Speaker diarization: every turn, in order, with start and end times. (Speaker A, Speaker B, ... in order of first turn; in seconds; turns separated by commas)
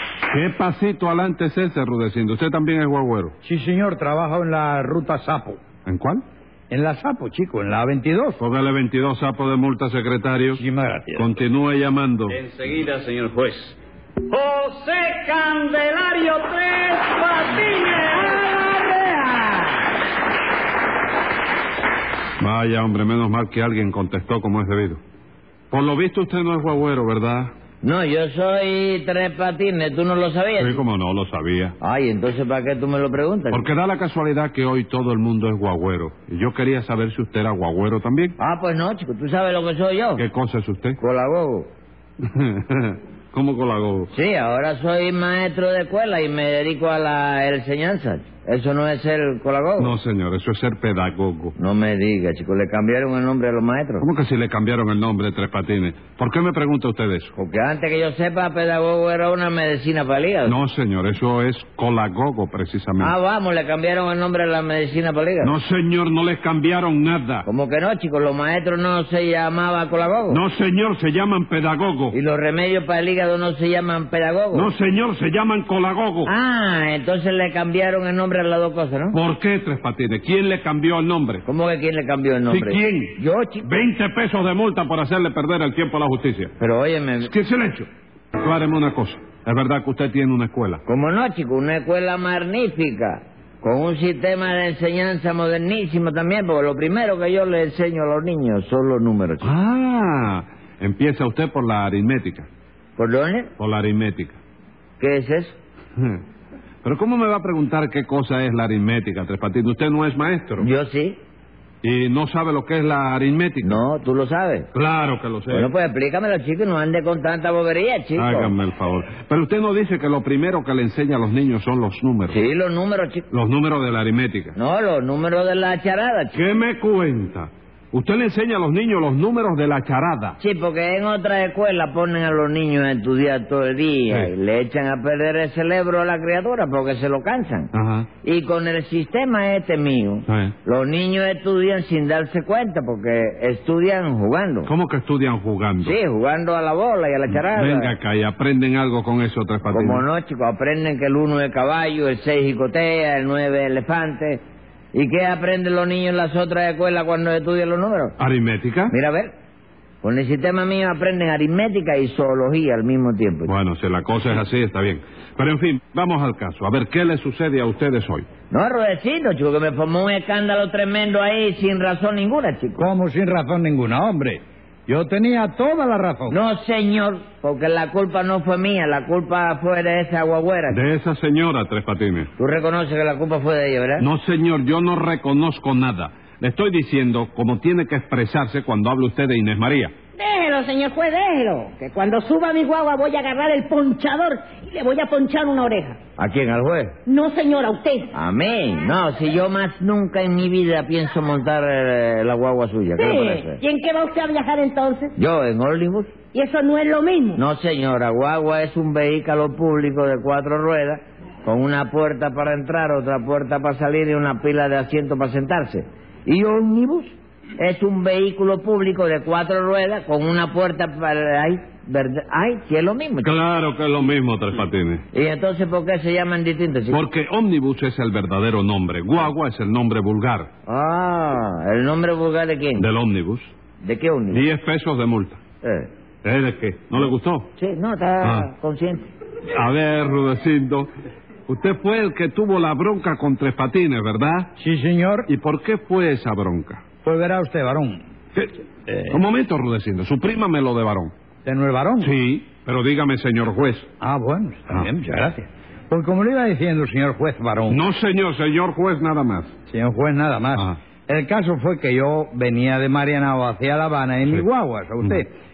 Speaker A: 0.3-3.4, Speaker B: 3.4-5.6, Speaker A: 5.9-6.2, Speaker B: 6.7-8.4, Speaker A: 8.4-10.6, Speaker B: 10.5-11.4, Speaker A: 11.2-12.4, Speaker C: 12.3-13.8, Speaker C: 14.3-18.5, Speaker B: 18.6-19.0, Speaker A: 22.4-25.0, Speaker A: 25.7-27.5, Speaker D: 27.8-30.8, Speaker A: 30.6-31.8, Speaker D: 31.8-33.7, Speaker A: 33.5-38.4, Speaker D: 38.4-40.2, Speaker A: 40.2-41.0, Speaker D: 41.0-41.7, Speaker A: 42.2-44.1, Speaker D: 44.1-50.0, Speaker A: 49.8-51.5, Speaker D: 51.6-54.1, Speaker A: 54.0-57.3, Speaker D: 57.4-60.6, Speaker A: 60.5-63.1, Speaker D: 63.0-65.6, Speaker A: 65.4-67.5, Speaker D: 67.5-70.4, Speaker A: 70.3-72.2, Speaker D: 72.1-74.7, Speaker A: 74.5-76.3, Speaker D: 76.2-79.2, Speaker A: 79.1-81.4, Speaker D: 81.5-83.8, Speaker A: 82.5-86.5, Speaker D: 86.6-87.3, Speaker A: 87.2-90.8, Speaker D: 90.9-99.5, Speaker A: 99.4-102.5, Speaker D: 103.0-103.5, Speaker A: 103.6-104.4, Speaker D: 105.0-105.6, Speaker A: 106.0-106.2, Speaker A: 106.8-110.7, Speaker D: 110.6-111.2, Speaker A: 111.8-113.8, Speaker D: 113.6-114.7, Speaker A: 114.7-115.7, Speaker D: 115.5-118.6, Speaker A: 118.2-122.4, Speaker D: 122.3-123.3, Speaker A: 123.3-124.6, Speaker D: 124.6-126.4, Speaker A: 126.3-130.4, Speaker D: 130.4-144.7, Speaker A: 137.7-138.1, Speaker A: 140.3-140.6, Speaker A: 144.7-145.9, Speaker D: 145.8-147.9, Speaker A: 147.3-150.0, Speaker D: 149.7-154.4, Speaker D: 154.9-158.2, Speaker A: 158.2-158.9, Speaker D: 158.9-159.3, Speaker D: 160.0-163.5, Speaker A: 163.4-168.3, Speaker D: 168.5-172.8, Speaker B: 172.8-176.4, Speaker D: 176.3-180.8, Speaker A: 180.7-182.3, Speaker D: 182.4-184.1, Speaker A: 184.0-189.9, Speaker E: 190.2-196.0, Speaker D: 196.2-196.9, Speaker E: 197.1-198.1, Speaker D: 198.2-203.6, Speaker E: 203.0-205.1, Speaker D: 205.2-206.2, Speaker E: 206.2-207.4, Speaker D: 207.4-223.3, Speaker A: 223.2-225.0, Speaker D: 225.1-227.1, Speaker A: 226.9-230.5, Speaker D: 230.7-232.9, Speaker A: 232.8-233.5, Speaker D: 233.8-234.5, Speaker A: 234.3-235.4, Speaker D: 235.6-235.9, Speaker A: 236.2-237.5, Speaker D: 237.0-239.1, Speaker A: 238.2-238.5, Speaker A: 239.5-240.9, Speaker A: 241.5-244.5, Speaker B: 244.6-245.3, Speaker A: 245.3-246.9, Speaker B: 247.0-248.0, Speaker B: 248.9-249.1, Speaker A: 249.1-251.1, Speaker B: 251.4-252.1, Speaker A: 252.0-253.9, Speaker B: 254.0-257.8, Speaker A: 257.7-259.5, Speaker B: 259.7-265.3